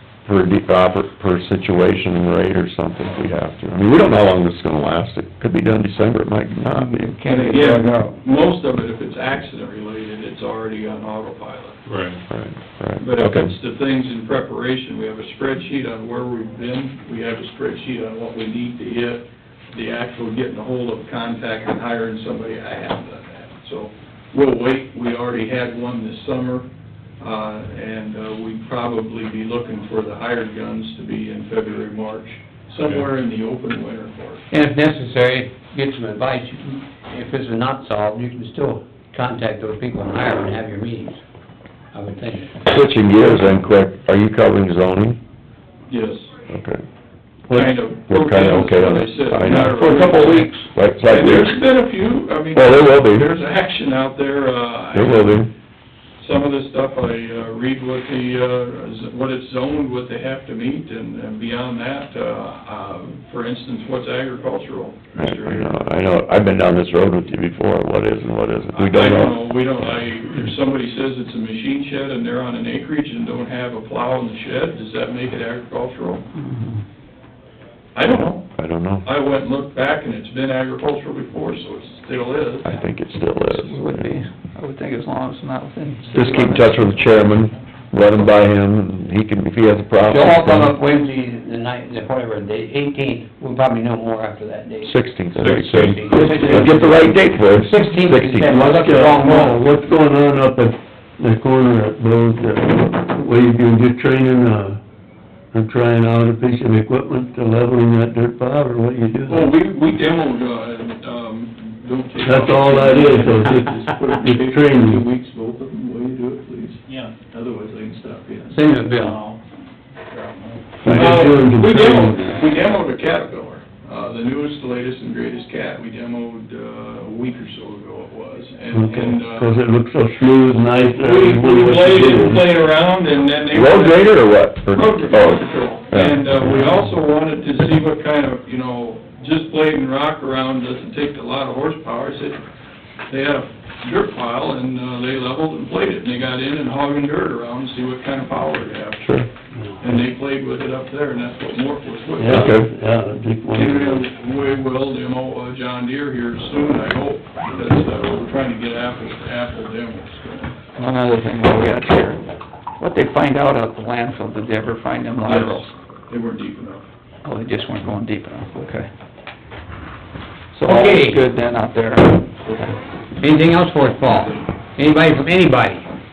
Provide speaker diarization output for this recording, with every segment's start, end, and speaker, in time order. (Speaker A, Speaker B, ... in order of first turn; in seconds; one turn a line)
Speaker A: 0.2-7.1
Speaker B: 6.7-8.2
Speaker C: 7.2-11.9
Speaker D: 11.9-12.2
Speaker A: 12.3-13.5
Speaker C: 13.0-26.7
Speaker C: 27.2-34.4
Speaker D: 32.8-33.1
Speaker E: 34.5-41.2
Speaker E: 41.9-42.6
Speaker A: 42.7-45.2
Speaker C: 45.9-46.3
Speaker A: 46.5-46.8
Speaker F: 47.5-47.7
Speaker C: 47.5-55.5
Speaker A: 48.1-51.6
Speaker A: 52.5-53.3
Speaker A: 54.9-55.5
Speaker C: 56.2-65.8
Speaker A: 65.2-69.4
Speaker C: 68.8-76.3
Speaker B: 76.4-76.8
Speaker C: 78.0-78.5
Speaker A: 78.1-79.1
Speaker C: 79.0-82.7
Speaker A: 82.6-84.1
Speaker B: 83.4-87.4
Speaker A: 86.1-90.8
Speaker E: 90.1-95.0
Speaker A: 94.8-98.6
Speaker D: 95.4-96.8
Speaker E: 95.7-96.9
Speaker C: 96.1-96.9
Speaker F: 96.2-96.8
Speaker E: 97.5-99.6
Speaker F: 98.5-104.8
Speaker F: 105.5-109.5
Speaker C: 109.3-119.4
Speaker F: 112.2-115.0
Speaker E: 118.5-119.2
Speaker C: 120.1-129.6
Speaker F: 120.8-122.3
Speaker F: 128.7-132.5
Speaker C: 130.9-134.2
Speaker A: 133.5-136.3
Speaker C: 134.7-142.4
Speaker C: 143.1-149.1
Speaker A: 149.0-149.3
Speaker C: 149.8-152.6
Speaker F: 152.2-154.0
Speaker A: 152.3-152.7
Speaker C: 153.5-160.6
Speaker B: 160.8-162.2
Speaker B: 162.8-165.7
Speaker C: 165.3-166.9
Speaker B: 167.2-168.9
Speaker B: 170.5-172.3
Speaker E: 170.7-171.2
Speaker C: 172.5-172.8
Speaker E: 173.2-175.9
Speaker C: 174.0-174.5